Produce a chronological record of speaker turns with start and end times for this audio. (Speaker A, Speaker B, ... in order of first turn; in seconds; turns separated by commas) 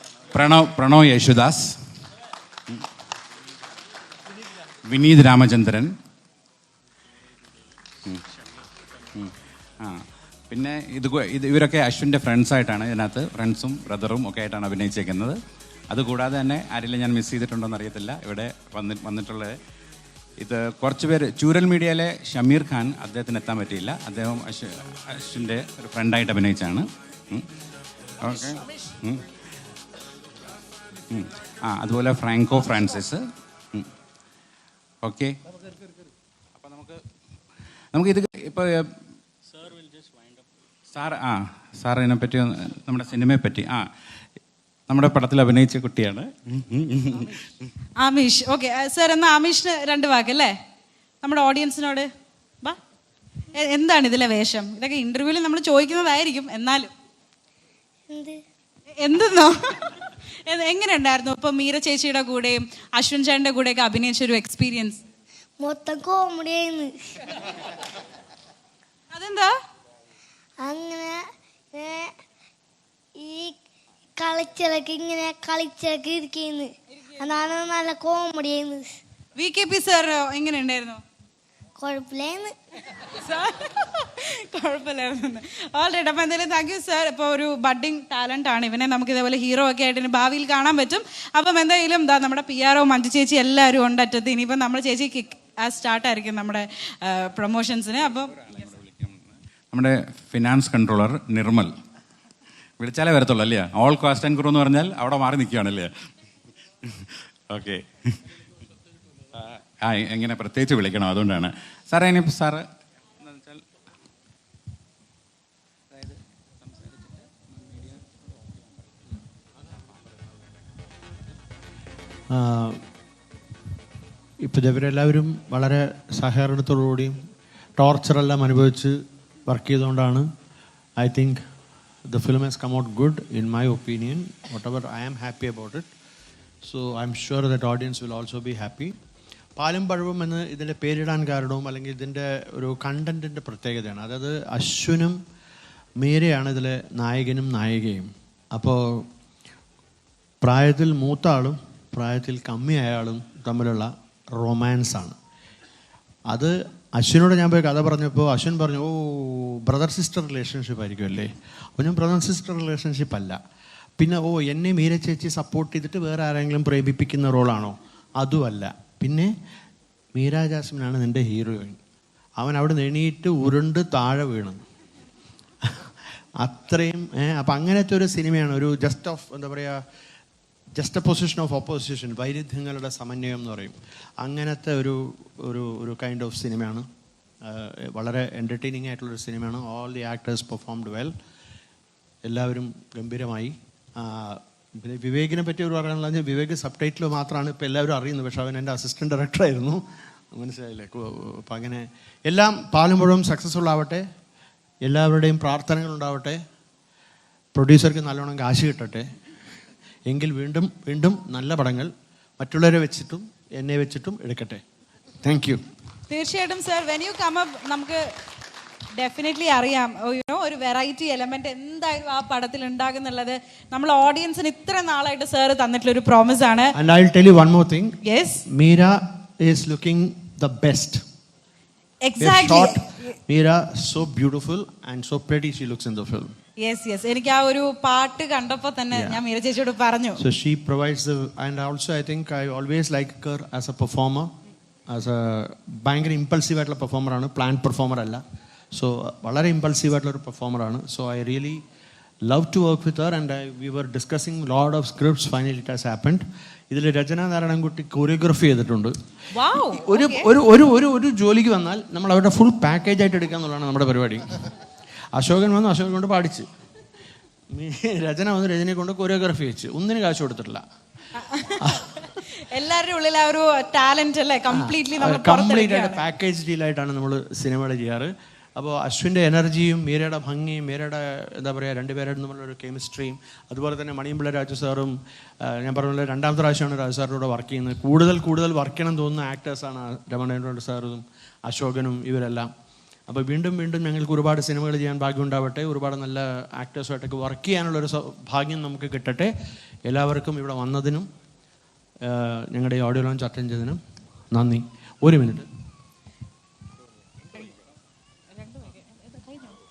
Speaker A: 0.3-1.8, Speaker A: 4.9-5.9, Speaker A: 9.2-15.4, Speaker A: 15.9-19.5, Speaker A: 20.4-27.4, Speaker A: 28.2-29.2, Speaker A: 31.1-33.2, Speaker A: 35.0-35.3, Speaker A: 36.5-37.0, Speaker A: 37.9-38.9, Speaker A: 40.9-43.8, Speaker A: 44.9-47.7, Speaker B: 48.0-50.5, Speaker B: 51.2-52.1, Speaker B: 53.5-56.9, Speaker C: 58.1-58.4, Speaker B: 59.0-65.0, Speaker C: 65.6-67.3, Speaker B: 69.1-69.5, Speaker C: 70.6-72.1, Speaker C: 73.2-73.6, Speaker C: 74.2-79.0, Speaker B: 79.3-81.0, Speaker C: 81.8-82.5, Speaker B: 83.0-98.5, Speaker A: 98.4-101.7, Speaker A: 102.8-105.9, Speaker A: 106.8-108.2, Speaker A: 109.3-112.6, Speaker A: 113.2-113.6, Speaker A: 115.9-118.0, Speaker D: 122.3-122.8, Speaker D: 124.4-127.2, Speaker D: 127.8-130.3, Speaker D: 131.0-131.4, Speaker D: 132.1-135.9, Speaker D: 136.6-138.9, Speaker D: 139.6-145.2, Speaker D: 146.0-149.1, Speaker D: 150.4-155.2, Speaker D: 156.3-163.4, Speaker D: 164.0-169.3, Speaker D: 170.1-171.8, Speaker D: 172.4-174.6, Speaker D: 175.6-175.9, Speaker D: 176.4-179.8, Speaker D: 180.8-186.8, Speaker D: 187.4-191.1, Speaker D: 192.2-204.0, Speaker D: 204.8-206.4, Speaker D: 207.5-209.1, Speaker D: 210.1-214.6, Speaker D: 215.2-215.6, Speaker B: 216.1-218.1, Speaker B: 219.0-226.7, Speaker D: 226.8-231.0, Speaker B: 228.0-228.4, Speaker B: 232.0-233.0, Speaker D: 232.2-236.3, Speaker B: 236.6-240.2, Speaker D: 238.9-239.2, Speaker D: 240.2-244.3, Speaker D: 244.9-248.2, Speaker D: 248.7-251.6, Speaker D: 252.2-258.9, Speaker B: 259.3-260.3, Speaker D: 259.6-264.4, Speaker D: 265.1-266.5, Speaker D: 267.5-270.6, Speaker B: 271.2-276.0, Speaker D: 271.6-271.9, Speaker D: 274.5-292.5, Speaker D: 293.1-299.3, Speaker D: 299.9-301.1, Speaker D: 302.0-303.8, Speaker D: 304.3-305.5, Speaker B: 308.6-309.4